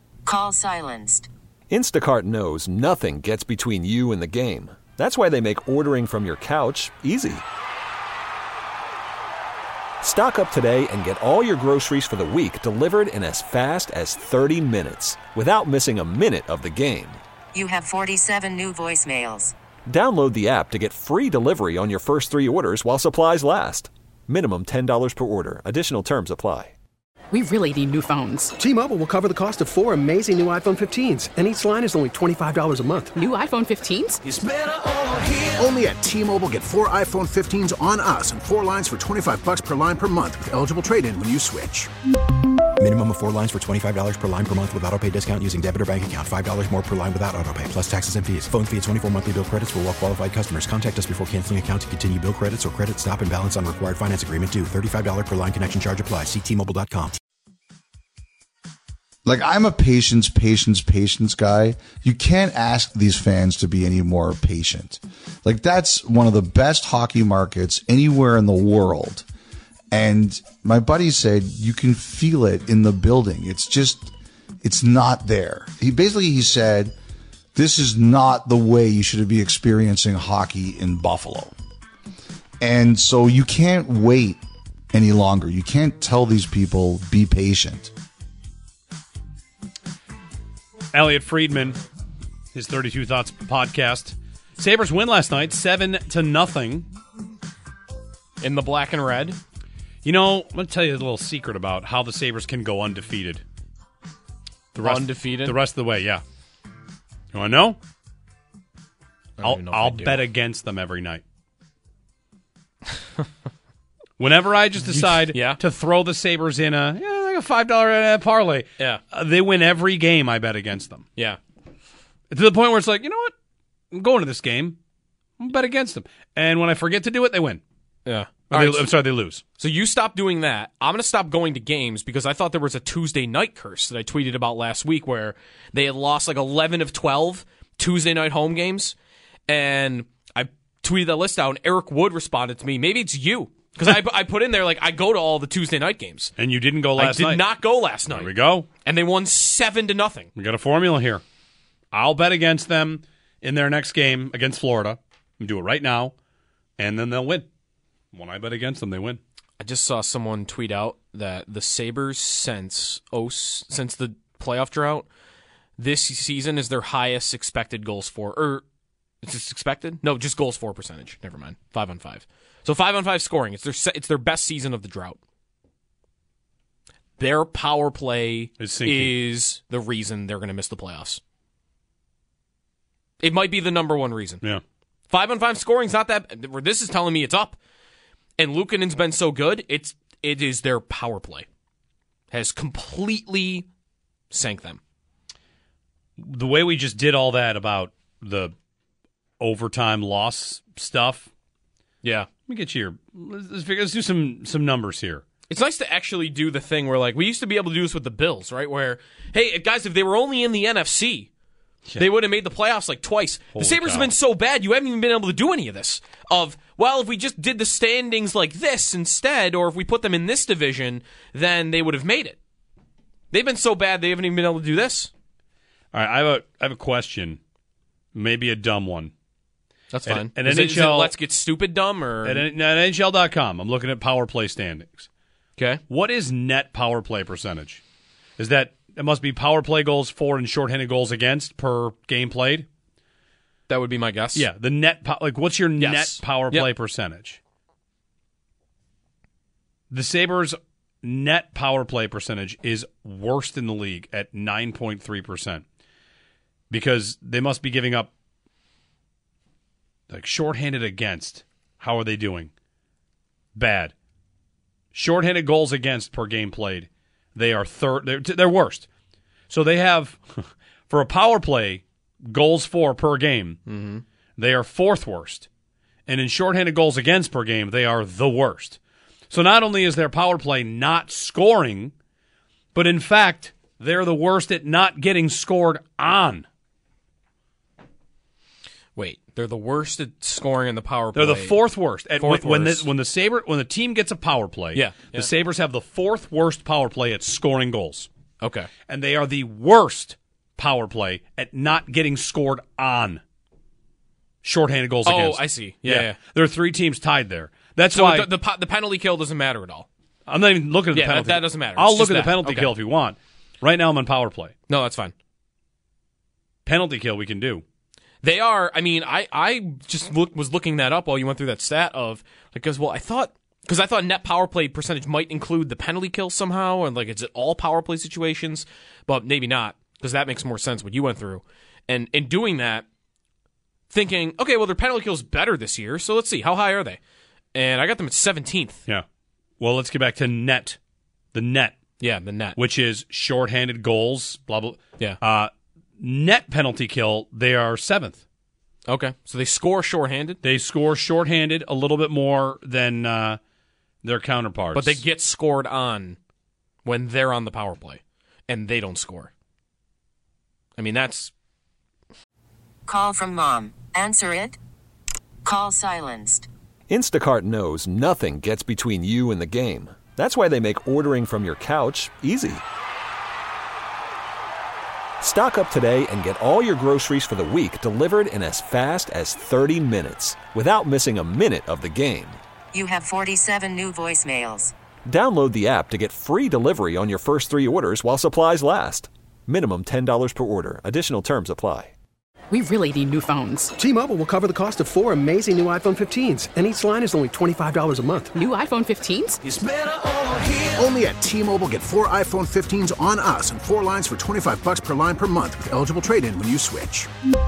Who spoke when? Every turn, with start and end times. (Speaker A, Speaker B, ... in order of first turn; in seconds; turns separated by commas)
Speaker A: 0.3-1.3, Speaker B: 1.7-7.5, Speaker B: 10.0-17.2, Speaker A: 17.5-19.5, Speaker B: 19.9-26.7, Speaker C: 27.3-28.5, Speaker D: 28.6-33.2, Speaker C: 33.2-34.2, Speaker E: 34.3-41.9, Speaker F: 42.8-57.2, Speaker G: 59.3-69.2, Speaker G: 69.9-74.1, Speaker G: 74.6-76.9, Speaker G: 77.5-81.5, Speaker G: 82.6-84.4, Speaker G: 84.9-87.9, Speaker H: 90.9-91.8, Speaker H: 92.5-96.9, Speaker I: 98.4-99.4, Speaker H: 100.0-103.4, Speaker H: 104.7-106.2, Speaker I: 104.8-105.6, Speaker H: 107.3-107.8, Speaker I: 109.4-110.3, Speaker H: 109.4-111.2, Speaker H: 114.2-121.1, Speaker I: 114.8-115.6, Speaker H: 122.3-123.3, Speaker H: 123.9-124.8, Speaker H: 125.4-127.6, Speaker I: 128.1-128.9, Speaker H: 128.5-129.4, Speaker I: 129.6-139.0, Speaker I: 139.5-146.3, Speaker H: 146.4-147.5, Speaker I: 147.0-148.3, Speaker H: 148.1-148.7, Speaker I: 148.8-150.3, Speaker H: 150.4-151.2, Speaker H: 151.9-156.1, Speaker H: 156.8-157.5, Speaker H: 158.1-159.2, Speaker I: 159.6-165.1, Speaker I: 165.8-168.6, Speaker I: 169.2-175.2, Speaker I: 177.2-181.2, Speaker H: 178.6-179.1, Speaker I: 183.2-184.4, Speaker I: 185.1-187.6, Speaker I: 188.4-191.5, Speaker I: 192.3-193.7, Speaker I: 194.3-194.8, Speaker H: 196.2-198.5, Speaker H: 199.4-201.3, Speaker I: 202.0-202.3, Speaker H: 202.5-205.2, Speaker I: 205.5-211.3, Speaker I: 212.0-222.4, Speaker H: 213.6-214.1, Speaker I: 223.3-225.1, Speaker H: 225.9-227.4, Speaker H: 228.2-229.1, Speaker I: 229.9-232.4, Speaker H: 230.1-231.2, Speaker H: 232.2-235.1, Speaker I: 235.6-235.8, Speaker H: 235.9-237.8, Speaker H: 238.4-242.7, Speaker I: 243.7-244.5, Speaker H: 244.3-247.4, Speaker I: 245.8-246.7, Speaker H: 249.9-255.6, Speaker H: 256.7-258.1, Speaker H: 260.1-262.5, Speaker H: 263.6-263.9, Speaker H: 264.9-268.9, Speaker H: 269.5-273.6, Speaker I: 273.7-274.0, Speaker H: 274.4-275.5, Speaker H: 276.1-278.8, Speaker H: 279.3-281.9, Speaker H: 282.8-286.5, Speaker I: 288.9-292.9, Speaker H: 291.1-298.1, Speaker I: 294.7-295.3, Speaker I: 298.4-298.7, Speaker H: 298.9-303.2, Speaker H: 304.4-308.3, Speaker I: 305.1-306.2, Speaker I: 307.9-309.9, Speaker H: 310.3-314.6, Speaker I: 310.9-312.8, Speaker I: 314.7-315.1, Speaker H: 316.7-317.6, Speaker I: 318.2-332.9, Speaker I: 333.9-337.0, Speaker I: 337.5-338.8, Speaker H: 339.6-340.8, Speaker H: 341.3-341.8, Speaker I: 342.0-342.6, Speaker H: 342.6-348.2, Speaker I: 348.9-350.4, Speaker H: 350.4-353.4, Speaker H: 354.0-355.0, Speaker I: 354.7-356.2, Speaker I: 356.8-359.3, Speaker I: 360.8-361.3, Speaker A: 362.9-364.6, Speaker A: 365.4-366.5, Speaker B: 366.9-372.6, Speaker B: 375.2-382.4, Speaker A: 382.7-384.7, Speaker B: 385.1-391.9, Speaker C: 392.5-393.7, Speaker D: 393.8-398.4, Speaker C: 398.4-399.4, Speaker E: 399.4-407.1